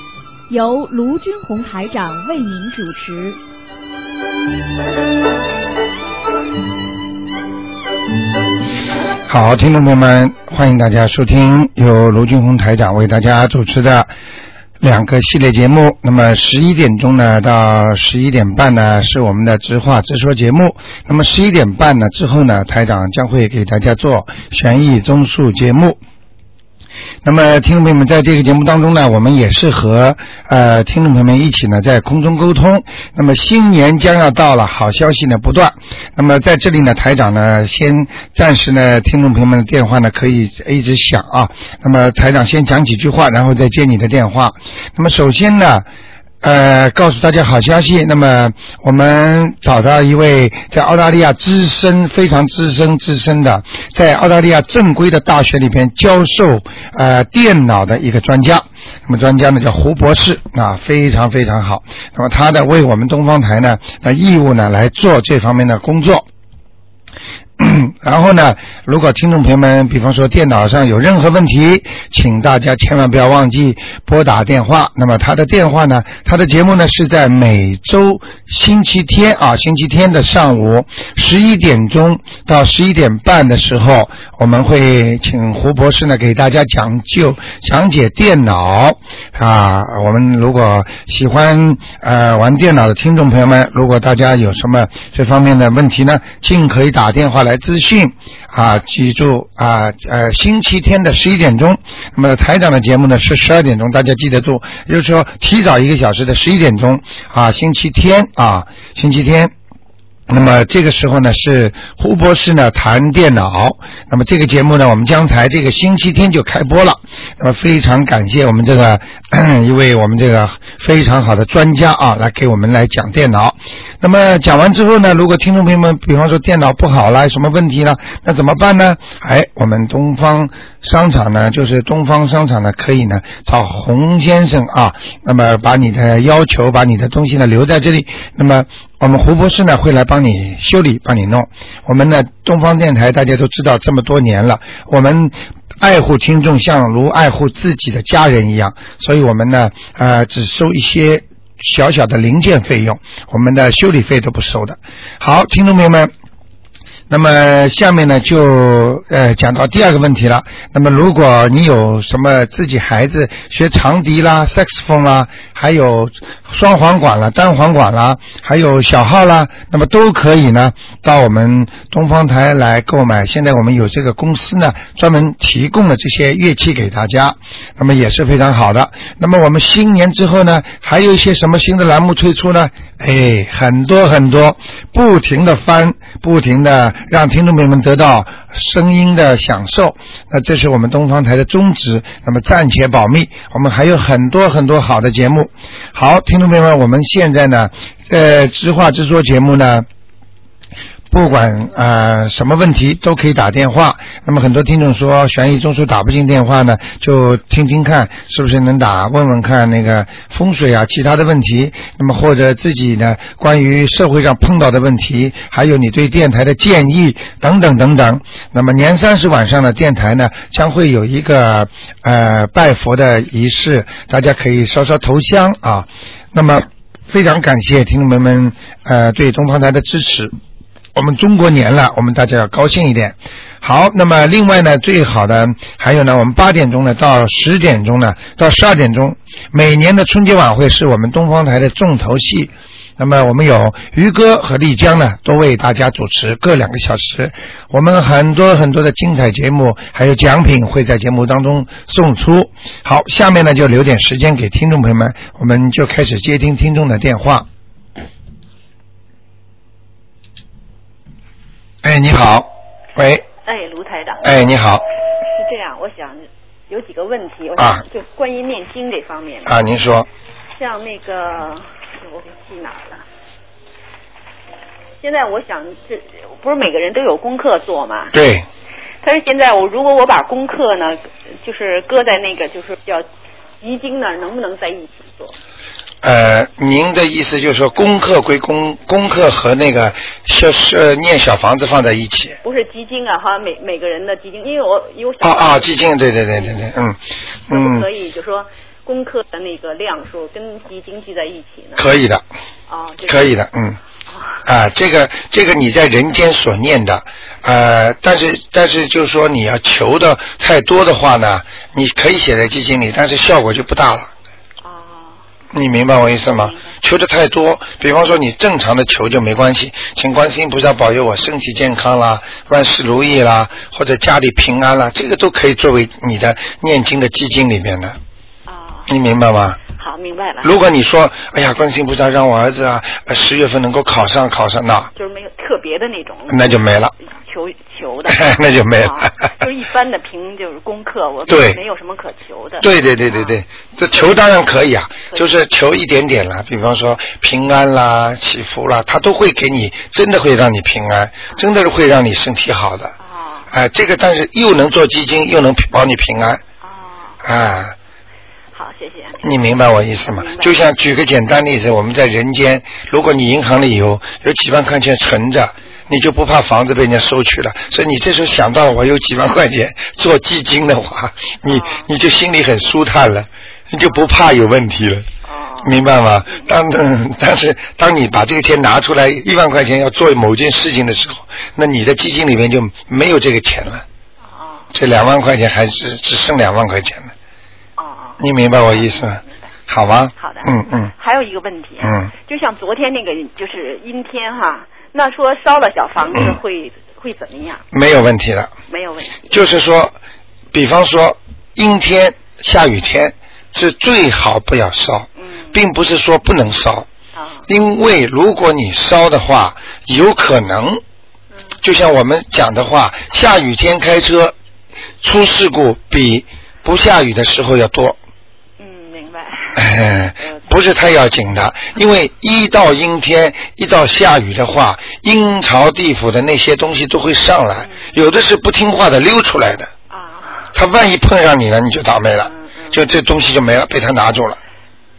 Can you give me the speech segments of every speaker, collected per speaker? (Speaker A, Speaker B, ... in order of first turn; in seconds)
Speaker A: 0.5-3.4
Speaker B: 9.3-14.1, 14.8-26.0, 27.2-45.9, 46.4-66.3, 67.6-109.5, 110.3-156.1, 157.1-199.9, 201.1-230.3, 230.9-257.5, 261.8-263.2, 264.2-264.8, 267.6-267.8, 269.4-270.1, 278.1-278.5, 286.0-292.4, 295.2-297.9, 301.8-302.2, 303.1-303.8, 304.4-314.1, 315.5-328.0, 328.9-329.6, 330.4-334.9, 336.3-336.9, 338.1-339.1, 341.3-341.6, 342.6-352.9, 353.5-356.4, 357.2-357.8, 359.2-375.1, 375.6-383.9, 384.7-387.1, 388.2-390.9, 391.8-392.1, 396.1-396.4, 397.7-398.5, 399.3-400.0, 400.5-406.9, 407.5-410.8, 411.6-414.4, 415.0-418.0, 419.6-429.7, 430.5-434.4
Speaker C: 263.4-264.5, 265.2-269.6, 270.6-273.0, 275.0-278.1, 279.0-283.1, 283.6-285.4, 292.4-296.7, 297.5-301.9, 302.7-303.4, 304.1-304.4, 314.6-315.2, 316.0-316.7, 328.5-328.9, 329.7-330.5, 334.9-344.2, 353.0-353.5, 356.6-357.2, 358.5-360.7, 371.4-371.9, 373.8-374.1, 375.2-376.5, 384.2-384.7, 387.8-389.5, 390.2-397.7, 398.7-399.3, 405.2-405.6, 407.1-407.5, 418.6-420.5, 427.6-427.9, 429.9-430.6, 432.2-432.9